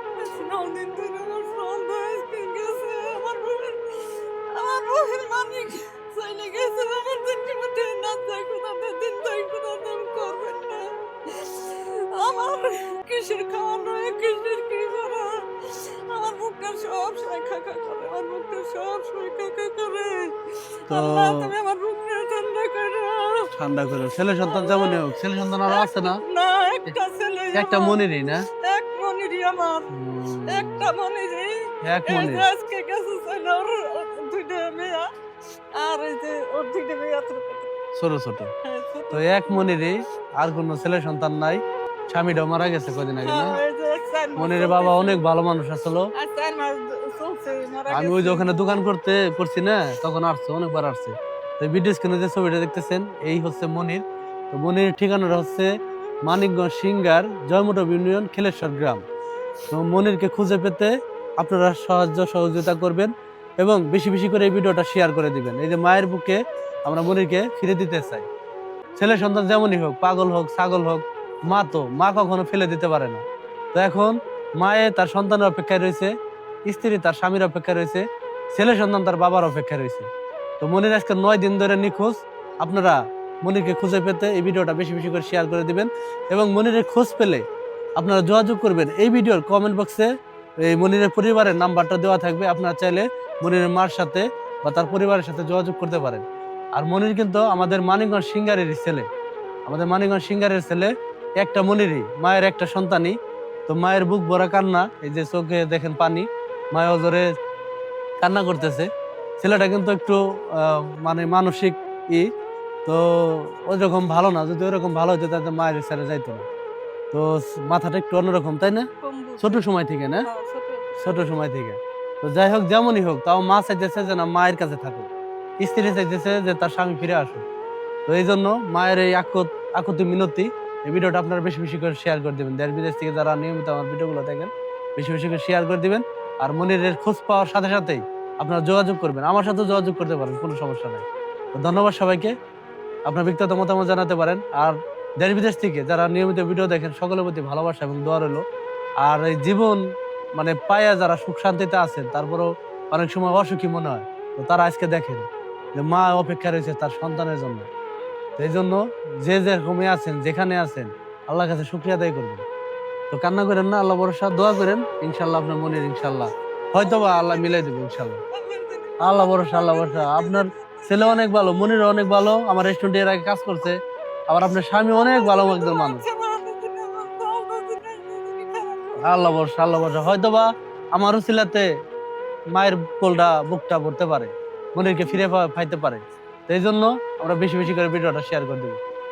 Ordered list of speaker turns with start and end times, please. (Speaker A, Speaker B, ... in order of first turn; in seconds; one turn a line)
Speaker A: 0.2-3.7
Speaker A: 4.6-10.8
Speaker A: 11.4-15.3
Speaker A: 16.1-20.3
Speaker A: 20.9-23.4
Speaker B: 20.9-21.5
Speaker B: 23.6-26.2
Speaker A: 24.4-25.0
Speaker A: 25.7-28.0
Speaker B: 27.5-28.4
Speaker A: 28.6-29.9
Speaker B: 29.9-30.9
Speaker A: 30.5-35.0
Speaker B: 31.8-32.5
Speaker A: 35.8-37.7
Speaker B: 38.0-38.5
Speaker A: 38.6-39.8
Speaker B: 39.1-43.6
Speaker A: 43.2-45.2
Speaker B: 44.4-46.0
Speaker A: 46.2-48.6
Speaker B: 47.9-54.0
Speaker B: 54.5-55.7
Speaker B: 56.2-59.0
Speaker B: 59.7-68.3
Speaker B: 69.0-73.2
Speaker B: 73.8-76.1
Speaker B: 76.7-78.0
Speaker B: 78.5-80.1
Speaker B: 80.6-87.4
Speaker B: 88.0-90.1
Speaker B: 90.6-96.2
Speaker B: 96.8-99.1
Speaker B: 99.7-103.1
Speaker B: 103.7-107.3
Speaker B: 108.2-108.9
Speaker B: 109.4-112.3
Speaker B: 112.9-116.5
Speaker B: 117.1-118.9
Speaker A: 119.0-119.7
Speaker B: 119.4-120.3
Speaker A: 120.2-121.4
Speaker B: 121.0-125.1
Speaker B: 125.6-127.4
Speaker B: 128.1-142.3
Speaker B: 143.1-148.4
Speaker B: 149.0-149.8
Speaker B: 150.4-157.7
Speaker B: 158.4-162.4
Speaker B: 163.1-168.2
Speaker A: 166.8-167.7
Speaker A: 168.3-171.5
Speaker B: 169.0-173.8
Speaker B: 174.3-176.0
Speaker A: 174.9-179.3
Speaker B: 179.0-181.7
Speaker B: 182.5-188.8